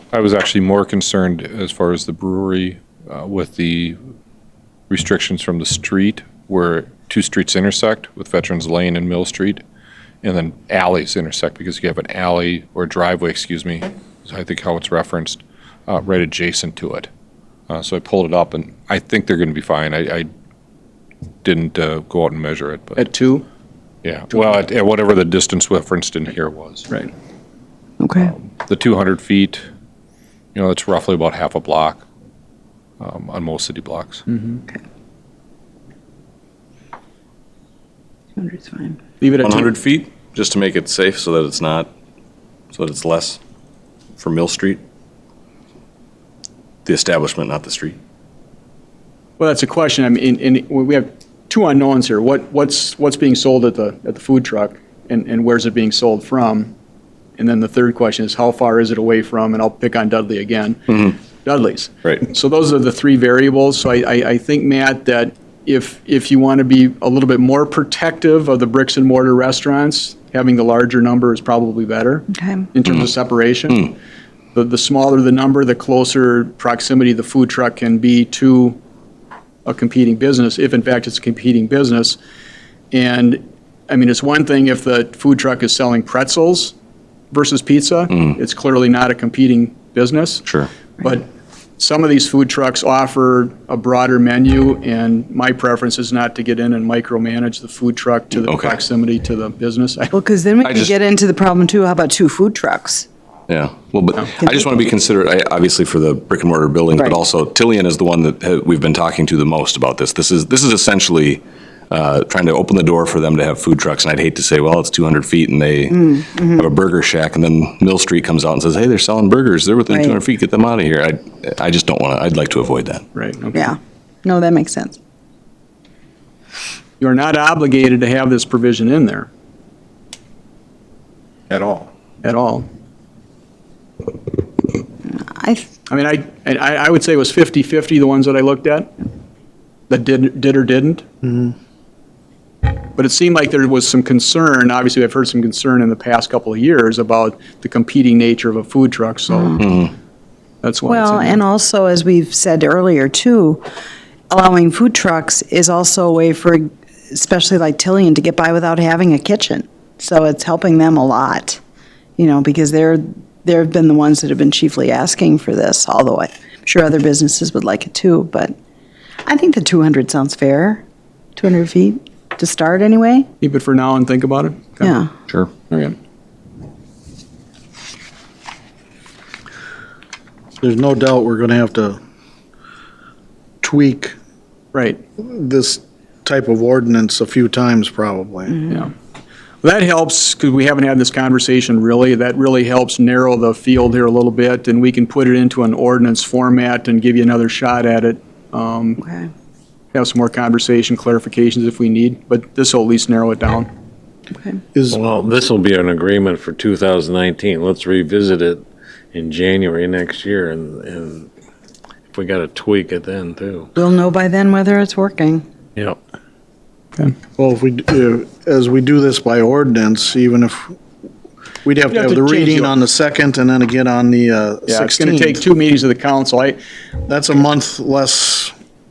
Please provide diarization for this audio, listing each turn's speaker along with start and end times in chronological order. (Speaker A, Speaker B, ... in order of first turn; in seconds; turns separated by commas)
Speaker A: 0.1-4.0, Speaker A: 4.9-9.6, Speaker A: 10.2-17.1, Speaker A: 17.7-20.3, Speaker A: 21.4-23.1, Speaker B: 23.0-23.4, Speaker A: 24.0-26.9, Speaker C: 28.0-28.3, Speaker A: 28.2-29.6, Speaker A: 30.6-32.0, Speaker A: 33.0-34.2, Speaker B: 34.3-34.6, Speaker C: 38.4-39.0, Speaker B: 39.2-39.7, Speaker D: 39.4-41.9, Speaker D: 42.7-43.4, Speaker D: 44.2-44.8, Speaker D: 46.9-48.0, Speaker B: 49.4-56.7, Speaker B: 57.4-74.0, Speaker C: 72.3-72.7, Speaker B: 74.5-78.8, Speaker B: 79.7-82.2, Speaker B: 82.9-86.7, Speaker B: 87.3-91.3, Speaker B: 91.8-100.1, Speaker D: 98.4-98.8, Speaker C: 100.1-103.1, Speaker D: 100.6-100.9, Speaker D: 103.5-123.0, Speaker C: 104.4-104.7, Speaker C: 106.9-107.2, Speaker C: 115.9-116.7, Speaker C: 119.9-120.2, Speaker B: 123.2-123.6, Speaker C: 123.5-125.0, Speaker B: 127.0-129.3, Speaker E: 131.5-131.8, Speaker B: 132.2-132.7, Speaker C: 135.3-135.7, Speaker B: 135.9-138.9, Speaker B: 139.9-141.1, Speaker B: 142.9-149.7, Speaker C: 149.3-149.6, Speaker D: 149.6-149.9, Speaker B: 150.6-151.4, Speaker C: 150.9-153.6, Speaker C: 154.3-161.6, Speaker C: 162.2-168.6, Speaker C: 169.2-170.8, Speaker C: 171.4-173.3, Speaker B: 173.4-175.0, Speaker C: 174.8-175.1, Speaker B: 175.7-176.0, Speaker E: 180.6-182.0, Speaker E: 183.6-184.2, Speaker B: 184.7-185.0, Speaker E: 185.2-188.7, Speaker B: 189.6-199.0, Speaker C: 199.0-199.3, Speaker B: 199.9-203.7, Speaker E: 204.7-205.0, Speaker F: 204.9-211.3, Speaker F: 212.1-213.7, Speaker C: 213.8-215.4, Speaker E: 217.4-220.8, Speaker E: 221.7-225.4, Speaker B: 221.9-222.8, Speaker B: 224.7-226.6, Speaker E: 227.1-228.5